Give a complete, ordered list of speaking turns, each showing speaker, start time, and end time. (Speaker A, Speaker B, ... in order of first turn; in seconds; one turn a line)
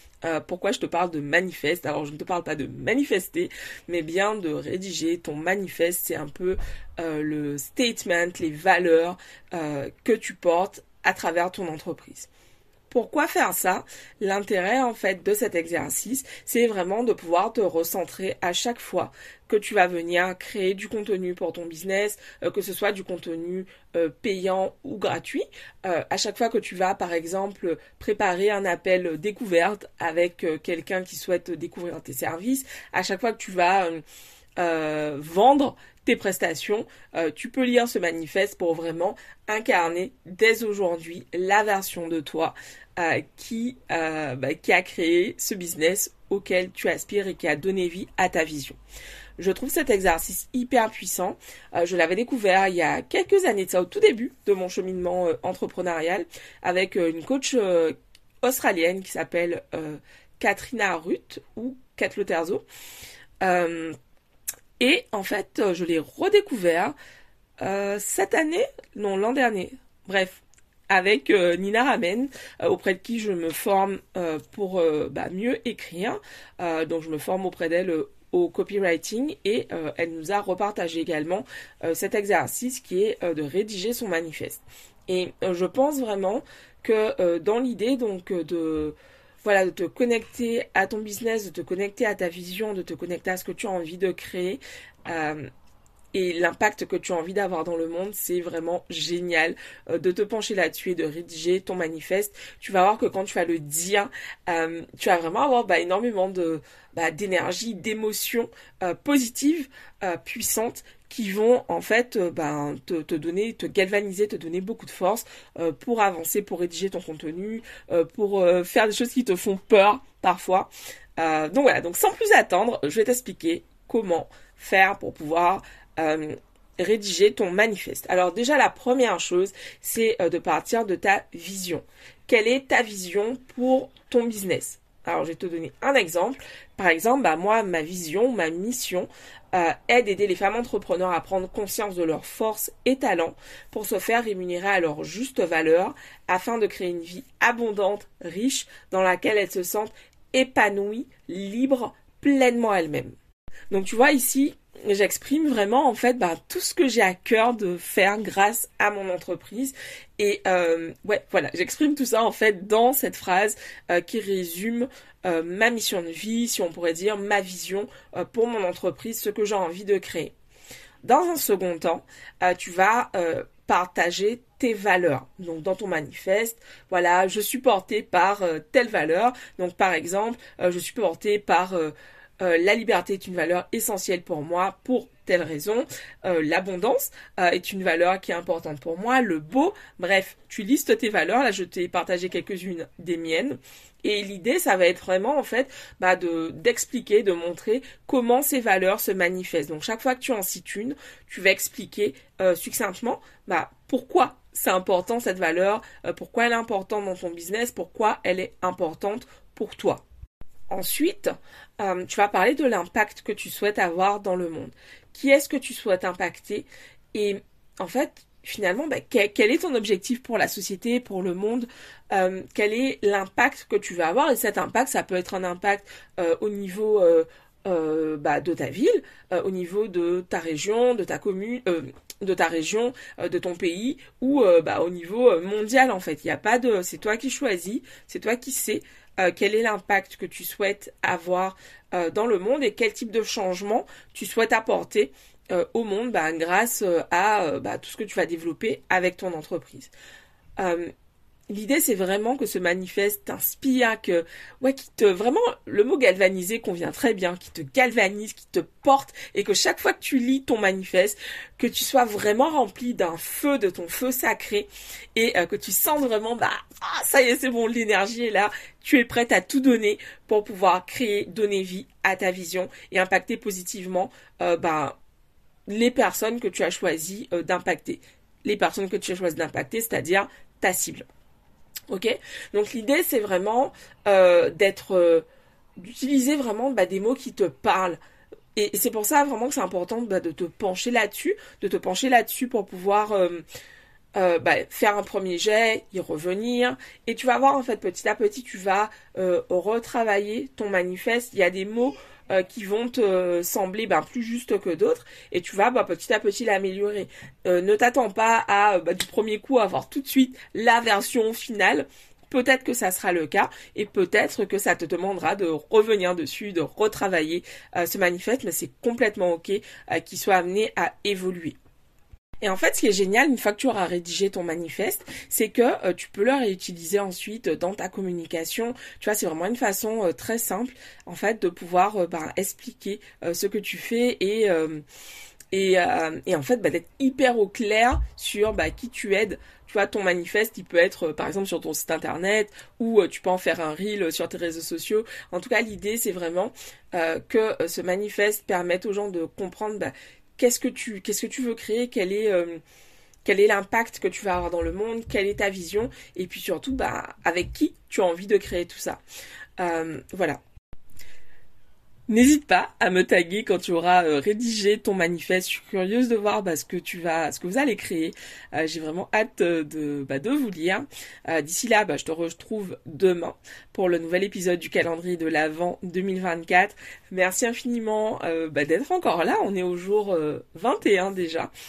Speaker A: 0.2-12.3
Speaker A: 12.9-34.0
Speaker A: 34.6-48.8
Speaker A: 49.4-62.6
Speaker A: 63.4-64.0
Speaker A: 64.8-66.9
Speaker A: 67.6-95.5
Speaker A: 96.1-153.1
Speaker A: 153.7-170.3
Speaker A: 171.0-210.0
Speaker A: 210.7-249.9
Speaker A: 250.6-250.9
Speaker A: 251.5-275.0
Speaker A: 275.7-281.1
Speaker A: 281.9-285.2
Speaker A: 285.8-288.0
Speaker A: 288.6-293.4
Speaker A: 294.1-321.6
Speaker A: 322.4-334.8
Speaker A: 335.5-352.6
Speaker A: 353.2-359.0
Speaker A: 359.6-360.4
Speaker A: 362.1-381.5